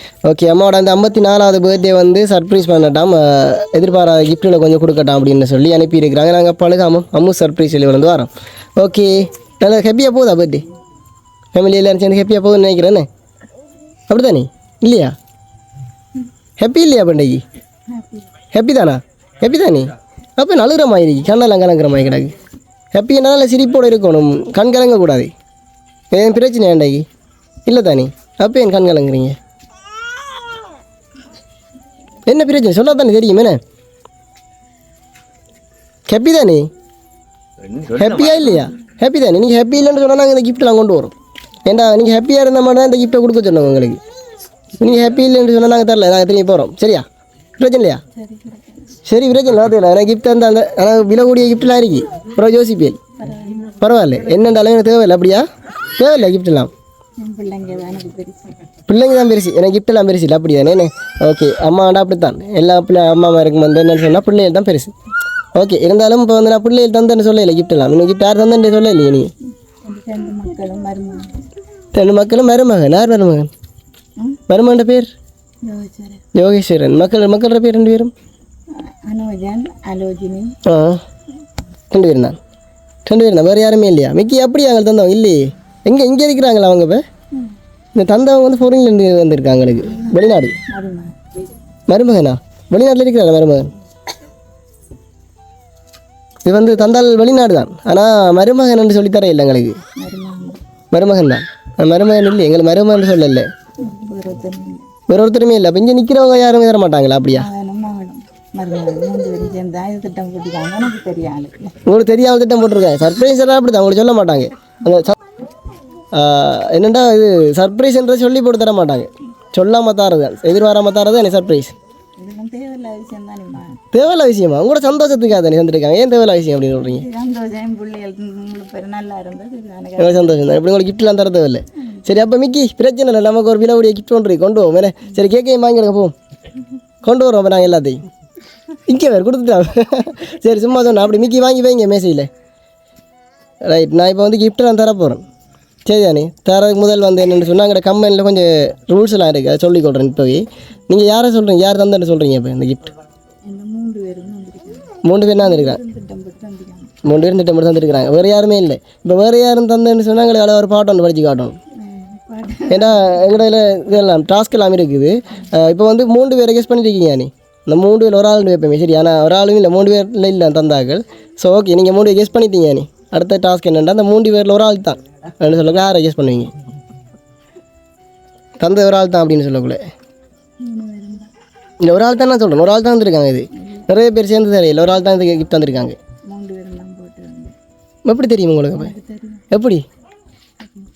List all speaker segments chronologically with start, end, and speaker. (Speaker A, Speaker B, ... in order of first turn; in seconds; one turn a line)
Speaker A: 0.2-10.7
Speaker A: 11.5-13.1
Speaker A: 14.1-15.1
Speaker A: 16.6-17.4
Speaker B: 17.9-18.2
Speaker A: 18.5-22.3
Speaker A: 22.9-25.3
Speaker A: 26.1-27.1
Speaker A: 27.6-29.4
Speaker A: 32.2-33.6
Speaker A: 36.1-36.7
Speaker A: 37.8-41.1
Speaker A: 41.6-44.0
Speaker A: 44.7-47.0
Speaker A: 47.6-48.0
Speaker B: 48.1-49.0
Speaker A: 49.0-53.0
Speaker B: 53.2-53.8
Speaker A: 53.8-56.7
Speaker B: 57.2-58.5
Speaker A: 58.9-64.9
Speaker A: 65.5-69.3
Speaker B: 69.8-71.4
Speaker A: 71.9-73.5
Speaker A: 74.5-75.1
Speaker B: 75.6-76.2
Speaker A: 76.3-78.1
Speaker B: 78.8-80.5
Speaker A: 80.7-81.0
Speaker A: 81.9-82.3
Speaker A: 83.0-87.0
Speaker A: 88.0-90.5
Speaker B: 90.7-91.1
Speaker A: 91.9-93.7
Speaker A: 96.4-99.8
Speaker B: 100.0-100.6
Speaker A: 100.9-103.5
Speaker B: 103.8-104.9
Speaker A: 105.1-107.5
Speaker B: 107.3-111.7
Speaker A: 111.8-115.1
Speaker A: 116.1-121.7
Speaker B: 122.2-123.8
Speaker A: 123.9-127.0
Speaker B: 126.9-130.4
Speaker A: 130.0-136.1
Speaker B: 131.8-132.1
Speaker A: 137.0-138.0
Speaker A: 138.9-142.3
Speaker A: 143.6-145.2
Speaker A: 145.8-152.9
Speaker B: 153.4-157.0
Speaker A: 155.0-155.8
Speaker A: 157.0-161.6
Speaker B: 161.8-163.1
Speaker A: 162.7-176.5
Speaker A: 178.6-179.8
Speaker B: 180.6-181.3
Speaker A: 181.8-186.0
Speaker B: 183.5-183.9
Speaker B: 186.3-187.5
Speaker A: 188.1-188.9
Speaker B: 188.8-189.4
Speaker A: 189.5-189.8